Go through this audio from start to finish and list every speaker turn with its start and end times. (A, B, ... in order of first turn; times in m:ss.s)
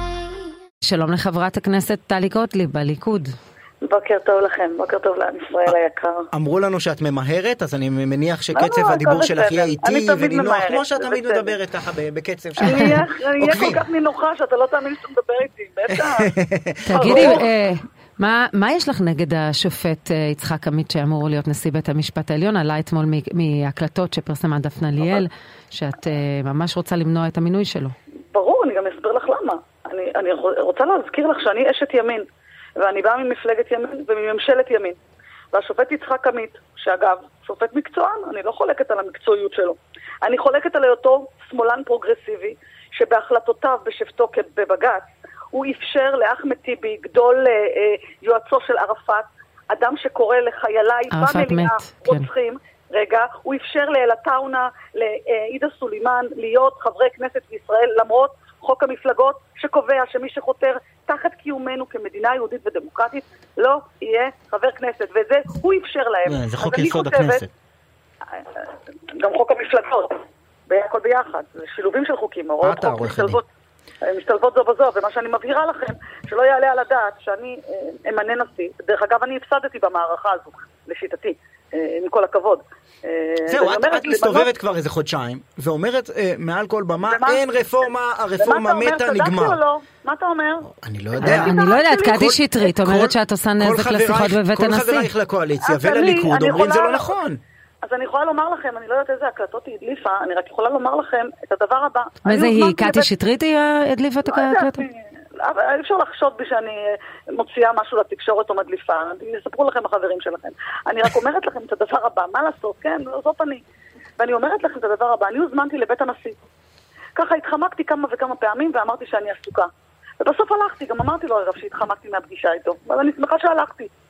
0:00.8-0:03.3 A
0:03.8-0:06.3 B
0:06.3-0:13.8 C
0:08.5-0:11.6 B
0:12.6-0:16.3 B
0:12.6-0:13.0 A
0:15.9-0:17.4 C
0:16.9-0:27.9 A
0:17.0-0:17.4 B
0:28.3-0:32.2 B
0:32.8-0:35.0 B
0:35.5-1:07.4 B
0:51.1-0:52.3 A
1:06.3-1:07.5 C
1:08.4-1:10.2 B
1:10.7-1:13.5 B
1:12.6-1:13.4 C
1:14.0-1:24.5 B
1:23.5-1:29.6 C
1:27.0-1:27.4 B
1:28.4-1:30.7 B
1:30.7-1:31.6 C
1:31.2-1:32.5 B
1:31.2-1:35.1 A
1:32.1-1:37.4 C
1:35.6-1:37.2 B
1:37.8-1:43.1 B
1:42.2-1:44.8 A
1:44.2-1:53.6 B
1:54.2-1:56.4 B
1:57.2-1:59.7 B
2:00.2-2:03.9 B